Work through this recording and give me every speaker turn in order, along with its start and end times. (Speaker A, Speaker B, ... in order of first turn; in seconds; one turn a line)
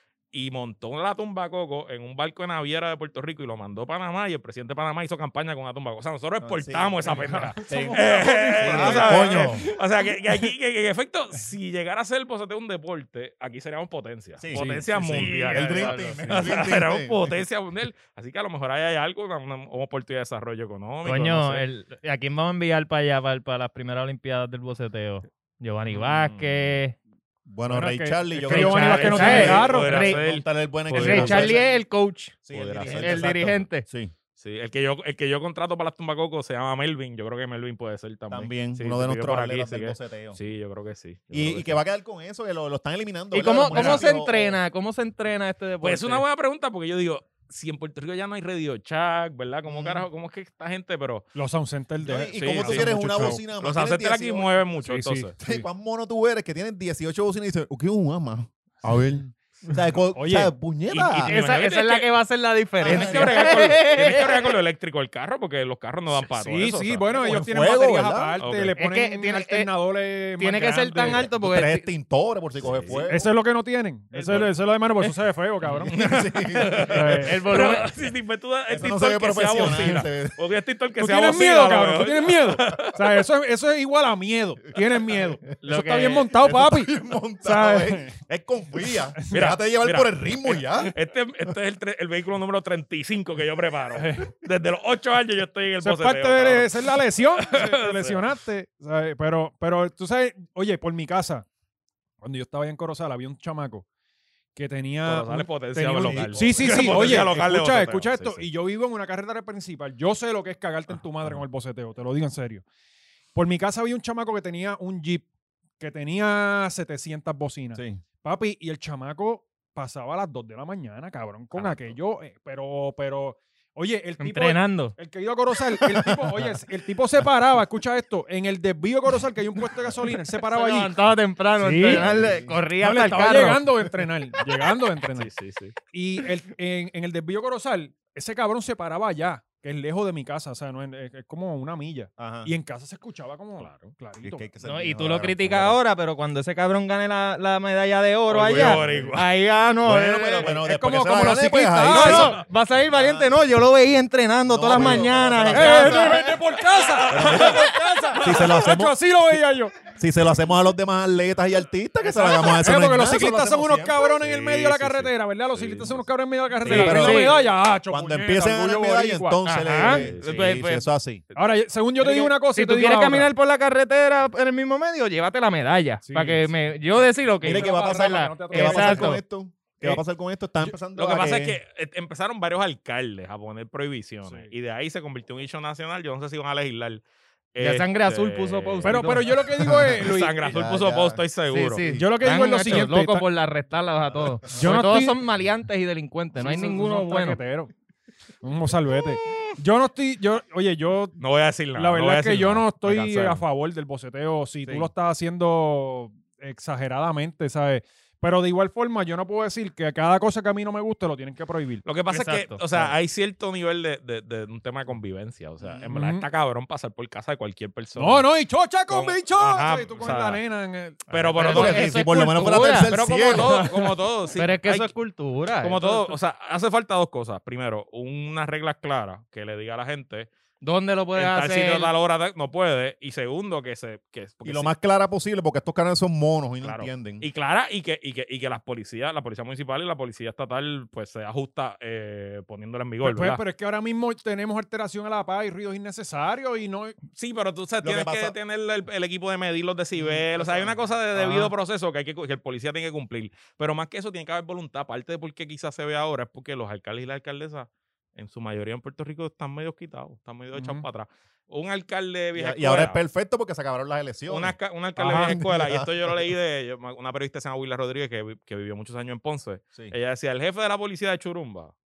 Speaker A: 0.3-21.6
Speaker B: 6.4-7.0
Speaker C: 7.0-9.8
Speaker B: 7.7-9.7
Speaker B: 14.4-17.4
Speaker D: 14.5-16.5
Speaker D: 21.1-26.9
Speaker A: 25.9-26.8
Speaker B: 27.5-31.6
Speaker C: 27.7-30.1
Speaker A: 28.5-31.6
Speaker D: 28.5-30.2
Speaker D: 30.9-33.9
Speaker B: 32.5-34.1
Speaker A: 32.5-33.5
Speaker A: 34.4-41.8
Speaker B: 38.3-40.4
Speaker B: 41.3-44.6
Speaker D: 43.3-46.2
Speaker C: 43.7-44.1
Speaker A: 45.8-51.3
Speaker B: 49.7-50.1
Speaker C: 51.4-53.4
Speaker B: 52.0-54.6
Speaker A: 52.3-55.3
Speaker C: 54.8-55.7
Speaker B: 55.4-61.3
Speaker C: 60.1-60.5
Speaker A: 60.9-62.1
Speaker D: 61.2-64.5
Speaker B: 62.8-63.4
Speaker A: 62.8-67.4
Speaker C: 66.3-71.3
Speaker B: 67.1-68.4
Speaker A: 68.4-68.7
Speaker D: 68.8-69.7
Speaker D: 70.4-71.9
Speaker B: 71.0-73.3
Speaker A: 72.6-73.1
Speaker C: 73.0-75.9
Speaker A: 74.1-75.1
Speaker A: 75.7-83.0
Speaker B: 75.9-77.2
Speaker C: 76.8-77.4
Speaker D: 77.1-77.9
Speaker B: 78.7-80.4
Speaker C: 79.6-79.8
Speaker C: 81.0-88.2
Speaker D: 85.7-86.2
Speaker B: 86.3-91.0
Speaker C: 89.2-89.5
Speaker A: 89.3-98.2
Speaker C: 94.0-94.3
Speaker C: 95.8-101.5
Speaker C: 102.2-103.8
Speaker C: 104.5-112.7
Speaker A: 105.0-108.5
Speaker B: 106.0-107.3
Speaker C: 113.3-115.2
Speaker C: 115.8-130.9
Speaker B: 117.8-118.0
Speaker A: 121.5-121.9
Speaker D: 124.2-125.0
Speaker B: 125.8-126.5
Speaker D: 130.4-133.7
Speaker C: 131.6-132.2
Speaker B: 131.8-132.6
Speaker C: 132.8-135.3
Speaker A: 135.1-135.8
Speaker C: 135.9-144.5
Speaker B: 142.2-142.5
Speaker A: 143.6-143.9
Speaker B: 144.2-145.8
Speaker D: 144.6-150.6
Speaker A: 148.3-149.2
Speaker B: 148.3-149.2
Speaker B: 149.8-153.3
Speaker C: 150.4-152.4
Speaker D: 151.9-156.3
Speaker B: 154.4-156.3
Speaker C: 155.5-159.9
Speaker A: 157.0-157.6
Speaker B: 157.1-157.7
Speaker B: 158.2-159.0
Speaker B: 159.9-164.3
Speaker C: 162.0-170.0
Speaker A: 164.2-166.1
Speaker B: 166.6-171.2
Speaker D: 166.6-167.4
Speaker D: 169.4-170.9
Speaker A: 169.8-170.6
Speaker C: 171.3-173.3
Speaker D: 172.0-179.2
Speaker C: 176.0-176.5
Speaker C: 177.4-179.2
Speaker B: 177.4-181.6
Speaker A: 180.9-187.0
Speaker C: 184.3-184.5
Speaker A: 187.5-192.0
Speaker D: 187.6-189.3
Speaker C: 188.8-190.6
Speaker B: 189.7-191.2
Speaker D: 191.5-197.4
Speaker B: 191.8-192.1
Speaker C: 191.9-193.3
Speaker B: 194.1-194.6
Speaker C: 194.5-195.2
Speaker C: 196.4-197.7
Speaker C: 198.4-201.2
Speaker A: 201.2-203.4
Speaker C: 201.8-211.8
Speaker B: 204.6-204.9
Speaker A: 211.8-218.3
Speaker D: 212.1-212.6
Speaker B: 215.6-215.9
Speaker C: 215.9-216.3
Speaker C: 218.0-221.4
Speaker A: 218.9-220.4
Speaker A: 221.1-221.9
Speaker B: 221.3-223.7
Speaker D: 221.4-223.0
Speaker A: 222.9-224.9
Speaker D: 224.3-225.9
Speaker A: 225.6-230.3
Speaker C: 225.8-226.1
Speaker D: 230.6-231.9
Speaker A: 231.1-234.7
Speaker B: 234.4-237.3
Speaker A: 236.6-243.4
Speaker C: 243.0-247.0
Speaker A: 247.1-263.0
Speaker B: 247.8-248.3
Speaker B: 250.0-250.8
Speaker C: 251.2-251.5
Speaker C: 260.5-260.9
Speaker B: 262.3-266.1
Speaker A: 264.3-271.7
Speaker C: 265.0-265.4